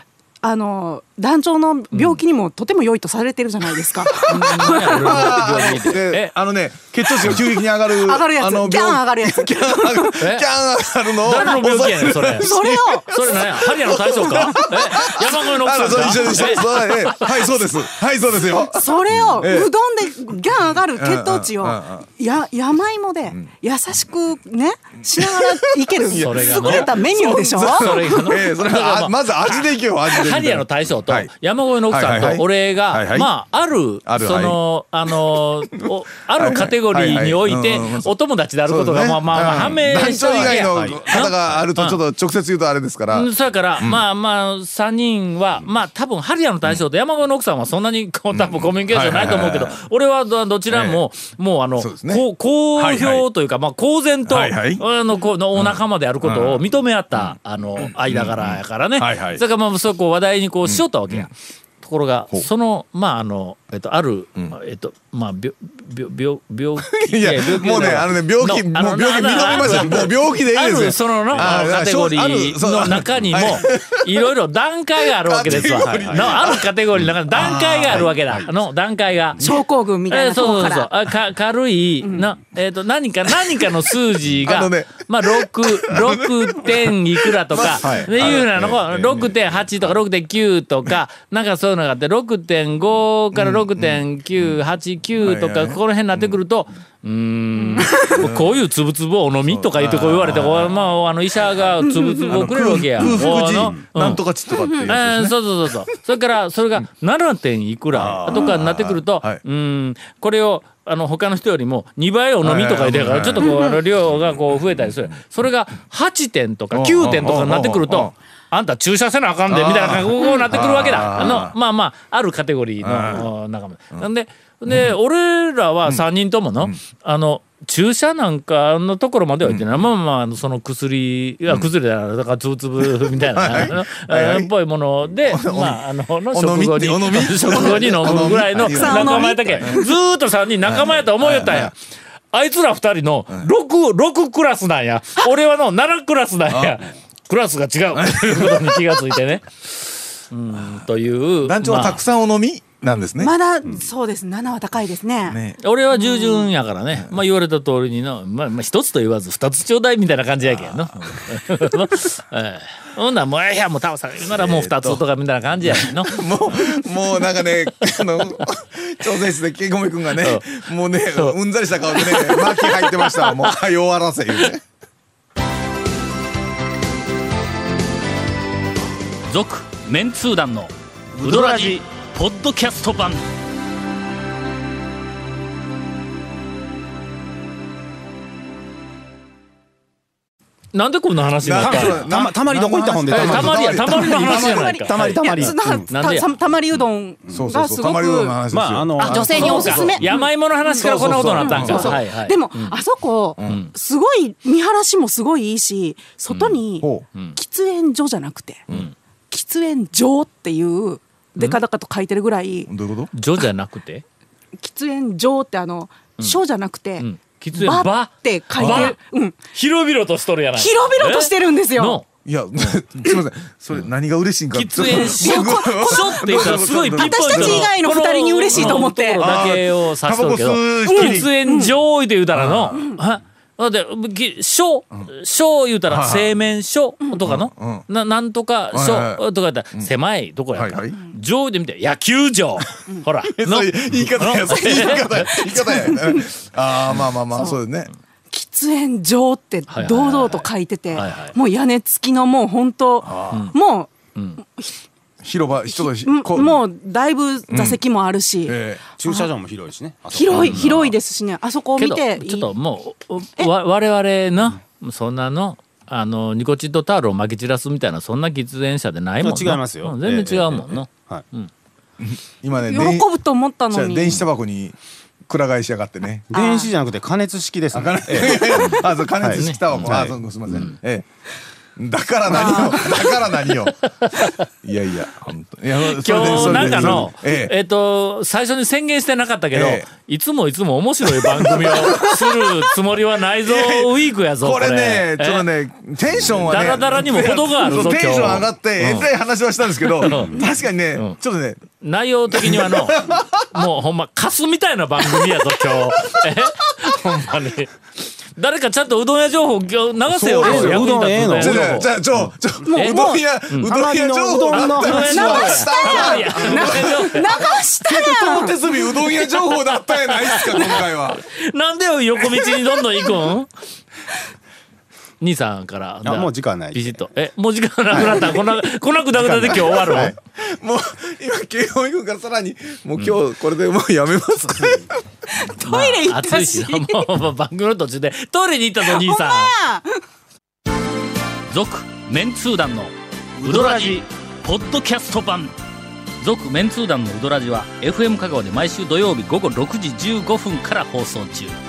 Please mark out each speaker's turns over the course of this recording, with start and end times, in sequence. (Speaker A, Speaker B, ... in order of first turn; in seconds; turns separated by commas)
Speaker A: 0.4-5.7, Speaker B: 1.9-2.2, Speaker B: 4.3-6.3, Speaker C: 4.3-19.7, Speaker A: 7.3-10.2, Speaker B: 10.2-10.5, Speaker B: 11.2-17.6, Speaker A: 11.3-11.7, Speaker A: 12.4-14.7, Speaker A: 16.1-16.5, Speaker A: 18.7-28.3, Speaker C: 20.9-22.1, Speaker C: 25.2-31.3, Speaker B: 26.1-42.0, Speaker C: 31.9-33.3, Speaker C: 34.0-34.6, Speaker C: 36.3-38.1, Speaker C: 38.6-44.0, Speaker D: 39.5-41.3, Speaker B: 43.1-79.6, Speaker C: 48.3-49.8, Speaker C: 50.7-51.0, Speaker C: 51.8-53.3, Speaker C: 54.3-54.8, Speaker C: 55.6-59.4, Speaker C: 60.6-61.3, Speaker C: 66.8-74.1, Speaker C: 75.0-76.7, Speaker D: 75.5-76.3, Speaker C: 77.3-78.1, Speaker D: 77.9-78.5, Speaker A: 79.4-80.9, Speaker B: 80.1-104.2, Speaker A: 82.0-82.3, Speaker C: 83.3-83.7, Speaker C: 84.4-89.9, Speaker D: 87.8-89.7, Speaker C: 93.3-94.7, Speaker C: 95.2-96.4, Speaker A: 97.6-98.2, Speaker C: 98.2-98.6, Speaker C: 99.4-105.8, Speaker A: 101.8-103.3, Speaker A: 104.5-104.9, Speaker B: 104.9-141.8, Speaker C: 107.9-109.4, Speaker C: 112.4-113.5, Speaker A: 113.4-113.8, Speaker C: 114.0-115.2, Speaker C: 116.7-118.1, Speaker C: 119.5-121.6, Speaker C: 122.8-123.3, Speaker C: 124.7-125.0, Speaker C: 129.4-129.9, Speaker C: 132.8-134.5, Speaker C: 135.1-139.7, Speaker A: 138.2-139.9, Speaker C: 140.7-141.7, Speaker B: 142.3-149.5, Speaker C: 146.5-146.9, Speaker C: 147.9-148.9, Speaker B: 150.3-152.0, Speaker C: 150.5-150.9, Speaker C: 151.4-153.3, Speaker A: 153.2-155.4, Speaker C: 155.3-155.6, Speaker B: 155.6-168.4, Speaker A: 155.9-156.4, Speaker C: 156.9-157.2, Speaker C: 160.4-161.2, Speaker C: 164.2-165.0, Speaker C: 165.6-174.6, Speaker B: 170.2-170.5, Speaker B: 171.1-173.6, Speaker B: 179.3-183.2, Speaker D: 181.2-181.8, Speaker B: 190.7-192.1, Speaker C: 191.4-194.2, Speaker D: 191.5-195.9, Speaker B: 193.1-196.3, Speaker A: 193.9-198.4, Speaker C: 197.3-200.0, Speaker D: 198.5-200.1, Speaker B: 199.0-202.8, Speaker A: 199.0-208.6, Speaker C: 200.8-202.0, Speaker B: 203.4-203.7, Speaker B: 206.3-206.6, Speaker A: 209.3-212.7, Speaker C: 212.7-213.1, Speaker B: 213.1-214.0, Speaker A: 214.6-219.4, Speaker B: 217.0-222.1, Speaker C: 218.6-218.9, Speaker A: 220.6-222.0, Speaker C: 222.2-227.7, Speaker B: 224.5-245.3, Speaker A: 224.9-229.2, Speaker C: 228.5-231.3, Speaker A: 230.9-231.7, Speaker C: 232.3-232.8, Speaker C: 235.9-236.3, Speaker C: 237.2-237.9, Speaker C: 238.7-239.9, Speaker C: 240.5-241.0, Speaker C: 243.3-247.9, Speaker A: 244.5-246.3, Speaker A: 248.3-254.8, Speaker B: 249.7-251.3, Speaker C: 253.0-253.5, Speaker B: 253.3-253.6, Speaker B: 254.2-254.4, Speaker C: 255.2-256.6, Speaker A: 255.7-259.3, Speaker C: 257.5-257.8, Speaker C: 258.4-258.8, Speaker D: 258.8-260.9, Speaker A: 260.1-262.5, Speaker B: 260.3-260.8, Speaker B: 261.8-271.5, Speaker D: 269.2-271.2, Speaker C: 272.0-273.1, Speaker A: 272.6-274.2, Speaker C: 273.7-274.8, Speaker C: 275.3-276.3, Speaker D: 276.3-280.6, Speaker A: 276.3-276.7, Speaker C: 277.7-281.1, Speaker B: 278.5-280.0, Speaker C: 281.8-283.8, Speaker A: 282.3-283.1, Speaker B: 284.1-284.4, Speaker C: 284.6-287.5, Speaker B: 285.8-295.5, Speaker D: 286.3-287.0, Speaker C: 289.5-289.9, Speaker C: 291.1-292.5, Speaker C: 293.4-301.6, Speaker D: 296.4-296.9, Speaker B: 296.5-299.1, Speaker B: 299.8-300.4, Speaker B: 301.8-307.7, Speaker C: 302.3-303.6, Speaker C: 305.0-305.9, Speaker B: 308.4-311.9, Speaker C: 310.1-321.2, Speaker D: 310.4-311.8, Speaker A: 312.7-313.2, Speaker D: 313.6-316.4, Speaker B: 314.5-317.5, Speaker A: 315.0-319.0, Speaker B: 319.7-323.5, Speaker B: 325.2-330.1, Speaker D: 326.1-327.1, Speaker D: 327.9-328.3, Speaker D: 329.2-330.1, Speaker C: 329.6-335.0, Speaker A: 335.4-337.0, Speaker B: 335.6-339.6, Speaker A: 338.8-340.0, Speaker B: 341.5-345.6, Speaker D: 343.4-344.0, Speaker B: 346.2-351.6